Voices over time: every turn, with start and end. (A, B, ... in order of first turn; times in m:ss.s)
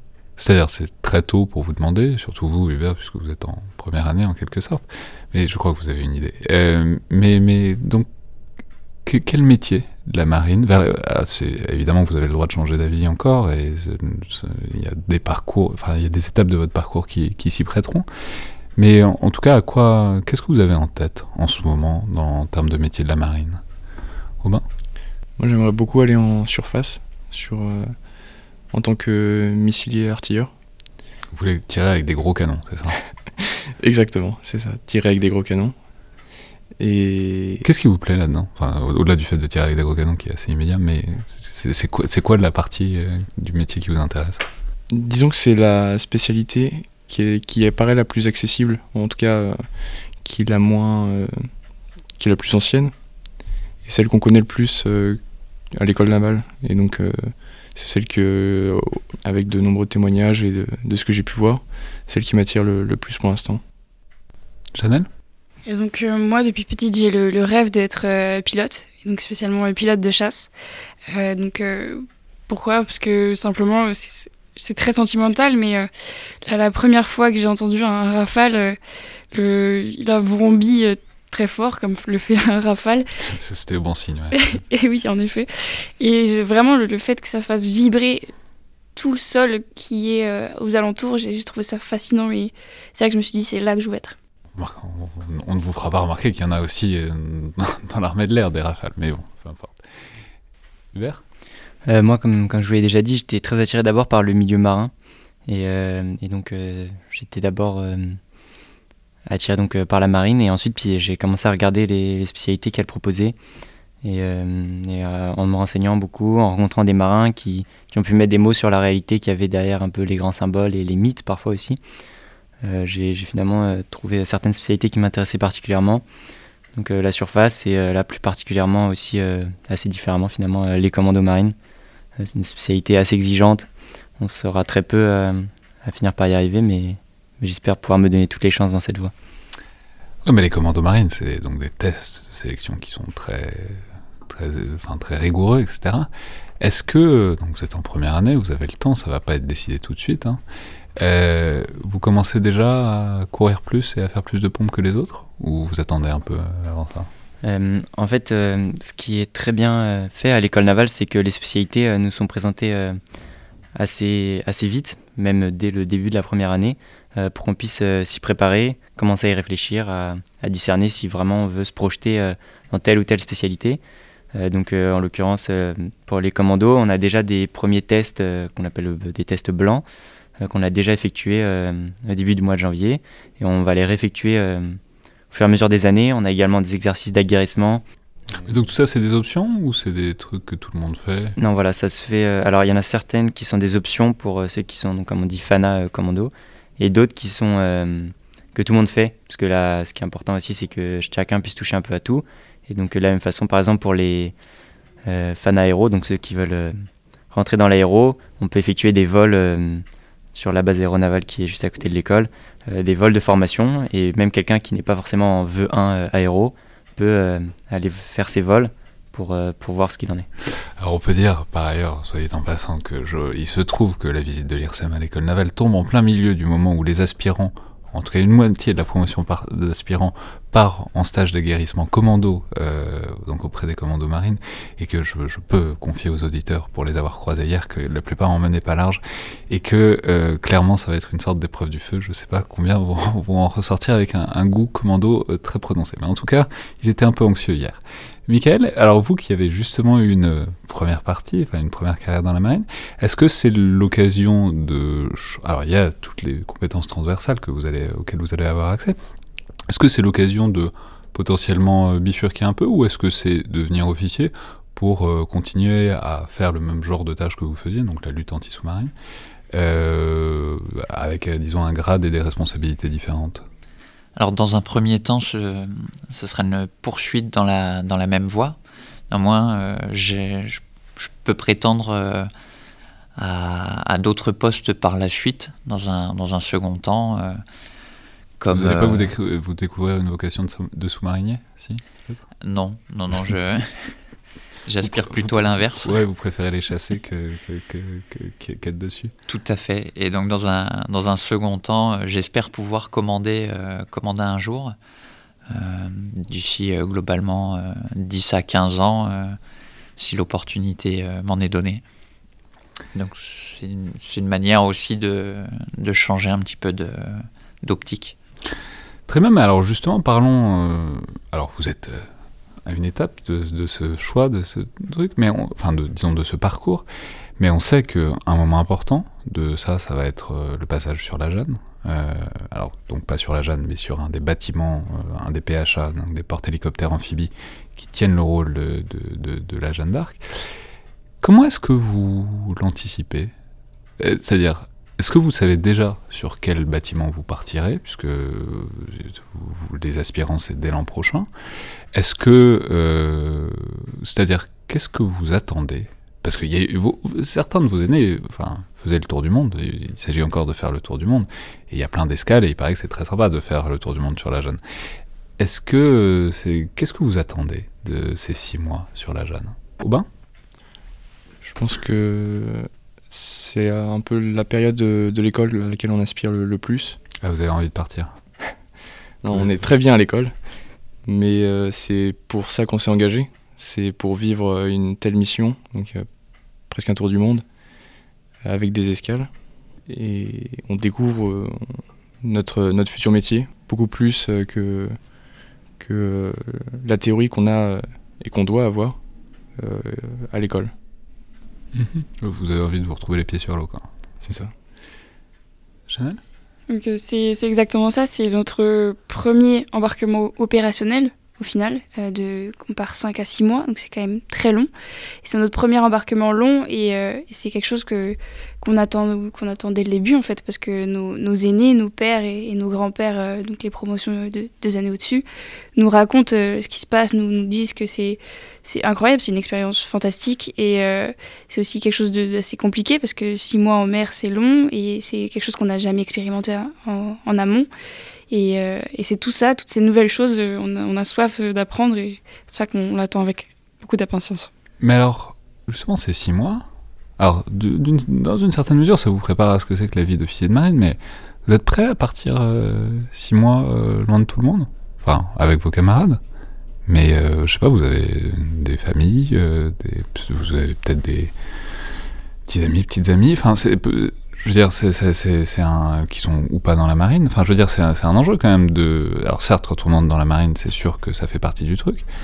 0:00.4-0:08.1 A
0:09.0-0:18.1 A
0:18.7-0:23.6 A
0:25.4-0:27.9 B
0:28.7-0:30.5 B
0:31.3-0:33.0 A
0:33.8-0:35.8 B
0:36.8-0:37.6 B
0:37.6-0:44.4 A
0:44.9-0:51.5 B
0:52.2-0:52.9 B
0:53.8-0:55.2 B
0:55.7-1:03.6 B
1:04.7-1:05.1 A
1:05.6-1:10.5 C
1:11.1-1:15.9 C
1:16.4-1:18.8 C
1:19.3-1:23.0 C
1:23.2-1:24.6 A
1:24.3-1:28.3 C
1:29.0-1:34.1 C
1:34.5-1:39.8 A
1:40.9-1:41.2 A
1:41.8-1:44.9 D
1:45.4-1:48.2 D
1:49.3-1:53.4 D
1:54.0-2:01.8 D
2:02.6-2:06.0 D
2:06.7-2:11.5 D
2:12.2-2:13.7 D
2:14.2-2:19.1 D
2:20.2-2:26.1 A
2:26.6-2:30.4 A
2:31.0-2:37.1 A
2:37.4-2:43.0 D
2:43.8-2:53.8 D
2:54.3-2:59.8 D
3:00.4-3:04.8 D
3:05.3-3:07.8 D
3:08.4-3:11.4 A
3:11.4-3:24.4 D
3:25.0-3:40.3 D
3:40.8-4:19.0 A
4:19.7-4:28.9 A
4:29.5-4:33.4 A
4:34.2-4:38.6 E
4:39.1-4:42.3 E
4:43.2-4:47.4 E
4:48.4-4:49.1 E
4:48.5-4:52.2 A
4:52.4-4:53.9 E
4:54.6-4:56.0 E
4:54.8-4:59.1 A
4:59.3-5:04.7 E
5:05.5-5:09.4 E
5:10.0-5:11.8 E
5:12.9-5:18.2 E
5:19.1-5:22.1 A
5:22.6-5:26.9 A
5:27.4-5:40.2 A
5:41.2-5:43.3 A
5:44.0-5:51.3 A
5:51.9-6:04.6 A
6:05.4-6:10.1 A
6:11.4-6:17.0 B
6:17.2-6:18.1 A
6:19.2-6:20.4 B
6:21.0-6:26.1 B
6:26.7-6:27.4 B
6:28.4-6:29.3 B
6:29.8-6:35.0 B
6:35.8-6:39.0 B
6:39.6-6:40.7 B
6:41.7-6:43.9 A
6:44.2-6:44.5 B
6:45.9-6:46.2 A
6:46.7-6:54.7 C
6:55.2-7:17.7 C
7:18.3-7:24.5 C
7:24.8-7:26.6 A
7:27.2-7:36.2 A
7:36.9-7:41.3 A
7:42.5-7:52.0 A